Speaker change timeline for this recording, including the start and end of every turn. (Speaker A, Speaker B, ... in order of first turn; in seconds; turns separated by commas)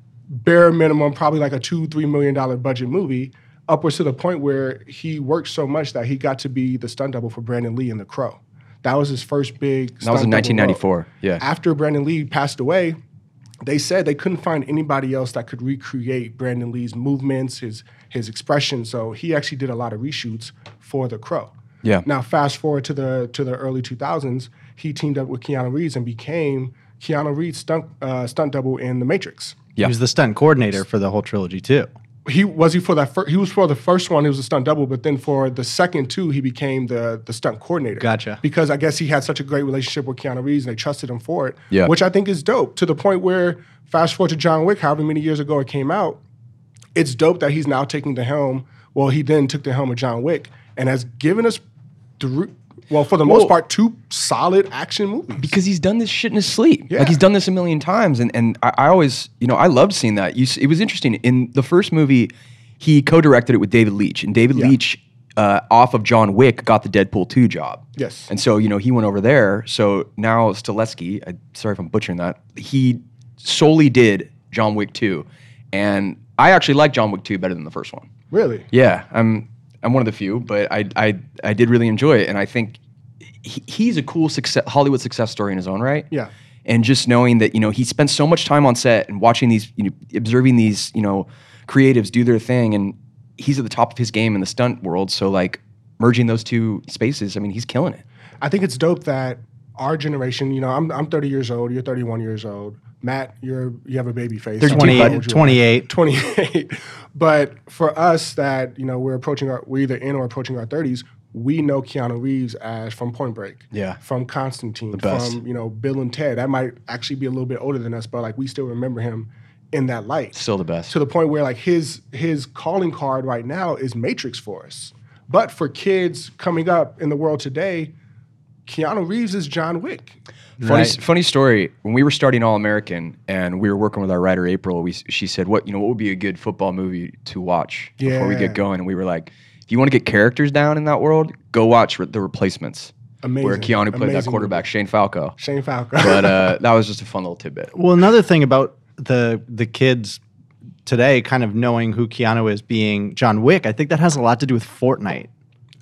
Speaker A: 0.3-10.8, Speaker B: 10.0-11.4, Speaker A: 11.4-13.0, Speaker A: 13.6-21.5, Speaker A: 22.1-29.6, Speaker C: 29.8-31.9, Speaker A: 32.2-46.2, Speaker C: 38.0-38.4, Speaker A: 47.0-51.6, Speaker A: 52.2-55.5, Speaker B: 53.2-53.5, Speaker B: 55.4-78.1, Speaker A: 56.9-57.2, Speaker A: 68.0-68.3, Speaker A: 78.3-78.7, Speaker B: 78.7-82.8, Speaker B: 83.4-86.1, Speaker B: 86.7-98.0, Speaker A: 98.4-120.4, Speaker B: 104.6-105.2, Speaker C: 104.7-105.9, Speaker B: 113.7-114.0, Speaker B: 114.9-115.4, Speaker B: 120.3-121.0, Speaker A: 120.9-127.9, Speaker A: 128.7-130.2, Speaker C: 130.6-131.0, Speaker B: 130.6-145.3, Speaker A: 138.0-138.6, Speaker A: 143.2-144.6, Speaker A: 145.4-146.5, Speaker B: 146.0-147.7, Speaker C: 147.7-150.2, Speaker C: 150.8-155.3